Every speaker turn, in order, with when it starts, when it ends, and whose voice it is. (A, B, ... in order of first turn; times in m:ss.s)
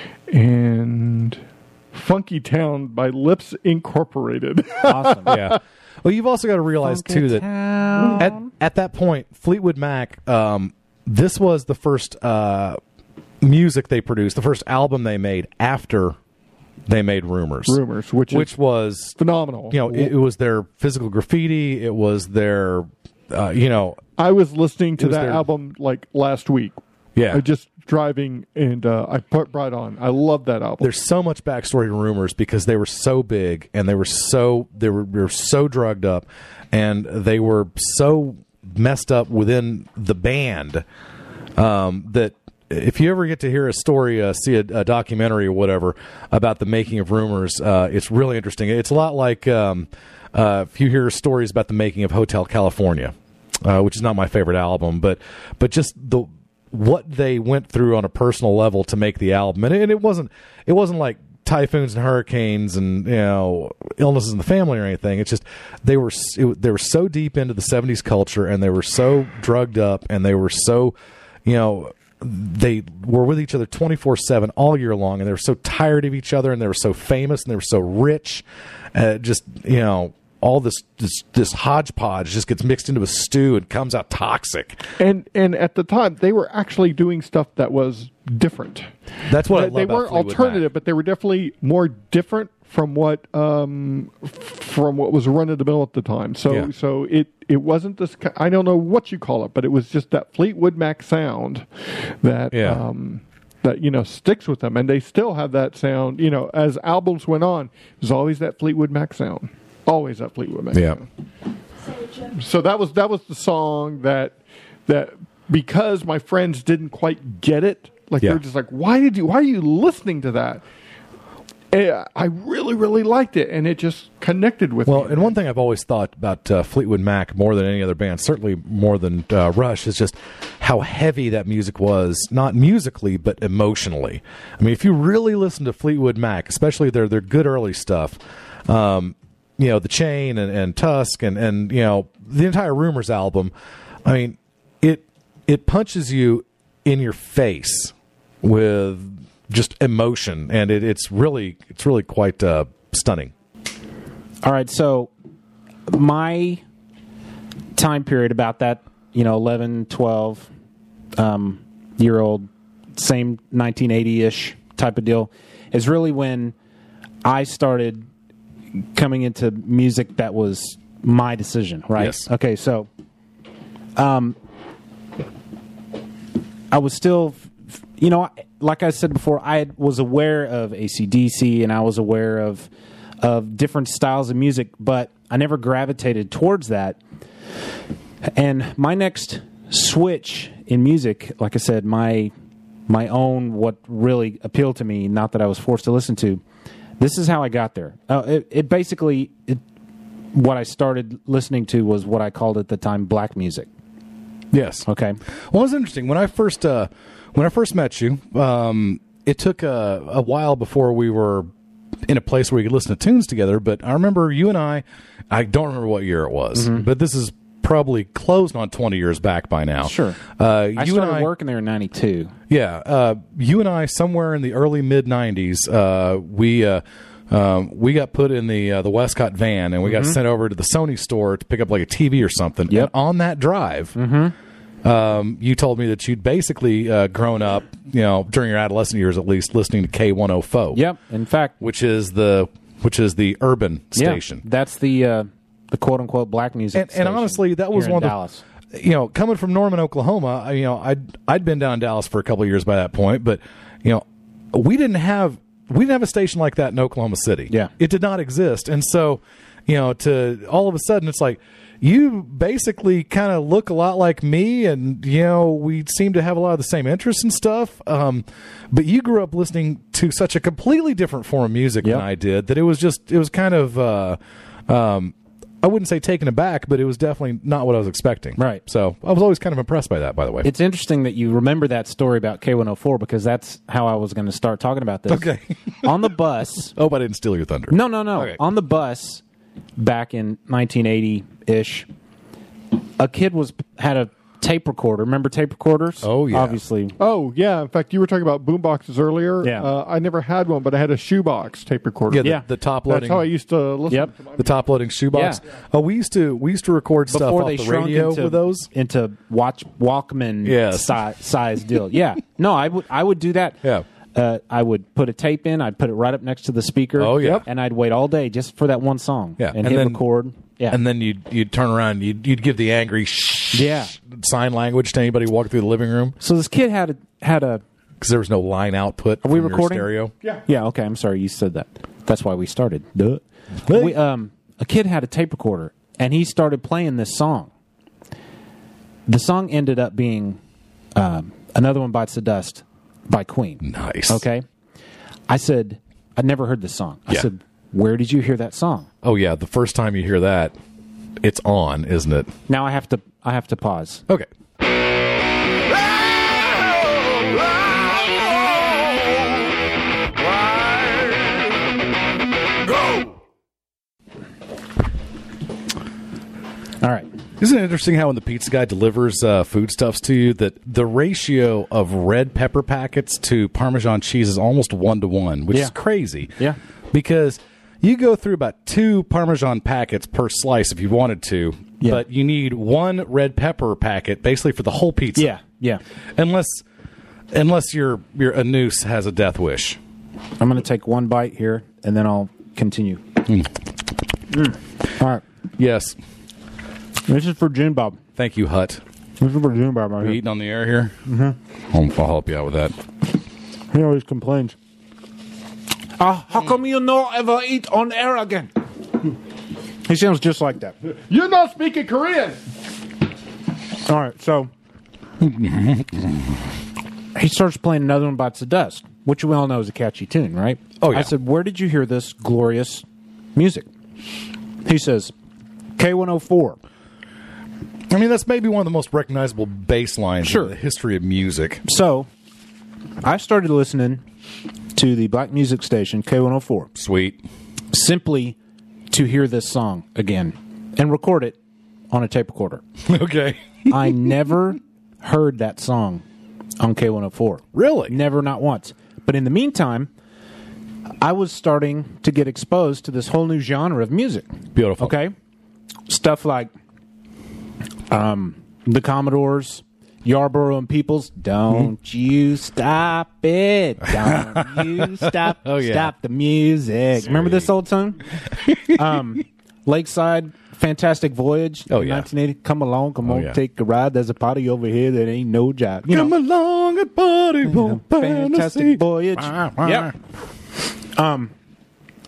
0:00.3-0:01.4 A
0:01.9-0:05.6 A
0:04.8-0:05.3 B
0:05.2-0:07.5 C
0:06.8-0:08.5 B
0:08.2-0:12.8 C
0:13.4-0:16.2 C
0:16.9-0:19.2 C
0:17.6-0:18.5 A
0:19.2-0:20.1 A
0:19.7-0:24.0 C
0:24.2-0:26.8 A
0:25.0-0:25.4 C
0:27.2-0:27.4 C
0:27.3-0:30.9 A
0:30.8-0:40.8 C
0:41.6-1:24.8 C
1:25.0-1:28.9 A
1:29.3-1:30.6 C
1:29.5-1:51.0 A
1:42.5-1:42.8 C
1:50.7-1:51.0 C
1:52.2-1:54.4 A
1:54.9-2:00.6 A
2:01.7-2:05.4 A
2:04.8-2:23.5 C
2:24.0-2:33.3 C
2:34.4-2:35.1 B
2:35.9-2:36.6 B
2:37.7-2:40.5 B
2:41.2-2:46.5 B
2:47.2-2:48.0 B
2:48.9-2:52.9 B
2:52.0-2:52.3 C
2:54.0-2:54.4 B
2:56.7-3:02.7 B
3:03.2-3:07.0 B
3:08.3-3:12.3 B
3:12.9-3:16.4 B
3:17.0-3:19.6 B
3:20.3-3:23.7 B
3:24.5-3:24.9 C
3:24.8-3:25.2 B
3:25.5-3:31.5 C
3:32.1-3:41.3 C
3:36.5-3:36.9 B
3:39.8-3:40.2 B
3:40.8-3:42.3 B
3:42.5-3:54.0 C
3:49.8-3:50.2 B
3:54.0-3:54.3 B
3:54.8-4:00.8 C
4:00.7-4:01.6 B
4:01.6-4:04.4 C
4:03.9-4:08.4 B
4:06.7-4:08.2 C
4:08.7-4:40.5 C
4:38.4-4:38.6 B
4:40.4-4:45.3 B
4:45.1-4:46.1 C
4:45.8-4:46.7 B
4:46.7-4:48.4 C
4:47.7-4:49.2 B
4:49.8-4:51.9 B
4:53.0-4:57.0 B
4:56.0-4:56.6 C
4:57.0-5:04.4 A
4:59.4-4:59.7 B
5:02.1-5:03.3 C
5:04.4-5:08.7 C
5:05.1-5:05.4 B
5:07.1-5:13.6 B
5:10.4-5:11.0 C
5:14.1-5:20.8 B
5:17.0-5:17.4 C
5:19.4-5:20.0 C
5:20.7-5:26.2 C
5:23.5-5:23.9 B
5:26.2-5:27.6 B
5:28.0-5:30.1 C
5:29.2-5:29.9 B
5:30.5-5:37.5 B
5:33.7-5:34.0 C
5:39.1-5:40.4 B
5:40.9-5:44.4 B
5:43.6-5:44.2 C
5:45.3-5:48.9 B
5:49.0-5:50.5 C
5:51.2-5:52.3 C
5:52.5-5:54.0 B
6:06.8-6:07.1 B
6:07.4-6:16.3 C
6:16.9-6:25.3 C
6:25.2-6:25.8 B
6:26.2-6:26.6 C
6:27.3-6:29.8 C
6:30.4-6:33.0 B
6:34.3-6:35.2 B
6:35.6-6:36.0 C
6:37.1-6:38.0 B
6:38.2-6:38.8 C
6:39.2-6:40.2 B
6:40.0-6:41.0 C
6:41.1-6:41.4 B
6:41.7-6:42.7 C
6:43.7-6:44.6 B
6:46.0-6:48.5 B
6:49.8-6:50.8 B
6:51.0-6:52.4 A
6:53.8-6:54.5 B
6:55.2-6:56.2 C
6:57.1-7:03.7 B
7:00.8-7:01.1 C
7:04.6-7:05.1 B
7:05.8-7:06.6 B
7:07.9-7:11.6 C
7:10.2-7:10.5 B
7:11.6-7:12.1 B
7:13.0-7:14.0 B
7:14.7-7:16.7 B
7:16.7-7:17.2 C
7:17.7-7:18.4 B
7:18.9-7:21.4 B
7:21.9-7:22.6 B
7:22.8-7:24.1 C
7:23.7-7:26.0 B
7:26.6-7:29.9 B
7:27.5-7:27.9 C
7:31.0-7:34.3 B
7:34.5-7:35.0 C
7:34.8-7:35.1 B
7:35.9-7:36.5 B
7:37.9-7:48.0 B
7:44.0-7:45.9 C
7:47.0-7:47.5 C
7:48.4-7:49.0 C
7:48.7-7:56.1 B
7:51.7-7:52.1 C
7:53.0-7:53.4 C
7:55.9-7:59.9 C
7:57.4-7:59.9 B
8:00.9-8:01.3 B